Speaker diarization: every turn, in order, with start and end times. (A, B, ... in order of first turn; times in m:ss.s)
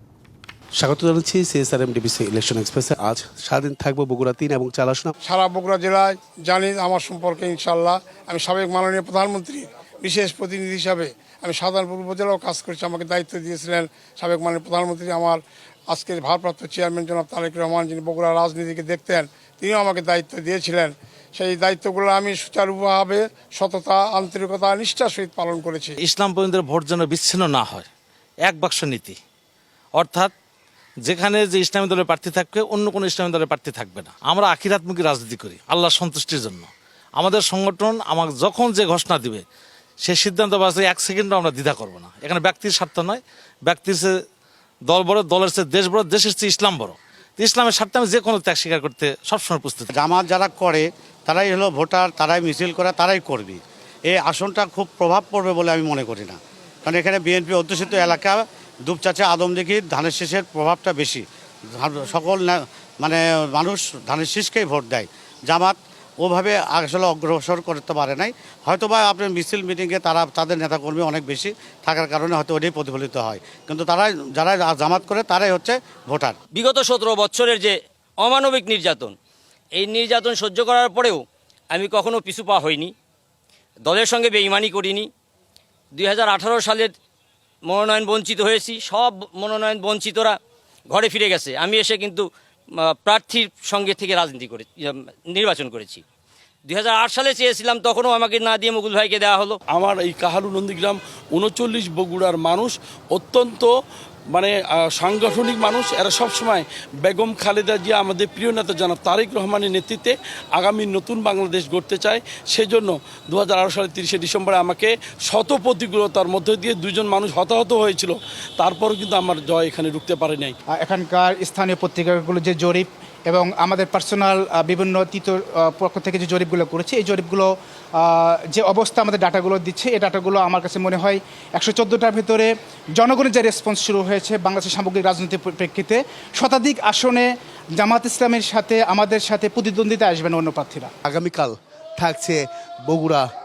0:00.8-0:05.1 A
0:05.3-0:15.4 B
0:15.9-0:26.0 B
0:26.0-0:27.9 C
0:28.5-0:29.2 C
0:30.0-0:30.3 C
0:31.1-0:39.4 C
0:40.0-0:44.1 C
0:44.9-0:49.9 C
0:50.0-1:16.4 D
1:16.6-1:19.2 E
1:19.8-1:22.9 E
1:23.9-1:25.1 E
1:26.0-1:26.9 E
1:27.7-1:30.4 E
1:30.9-1:32.3 E
1:32.8-1:36.0 E
1:36.7-1:39.6 E
1:39.7-1:43.7 F
1:44.3-2:00.6 F
2:00.7-2:20.9 G
2:21.1-2:23.3 A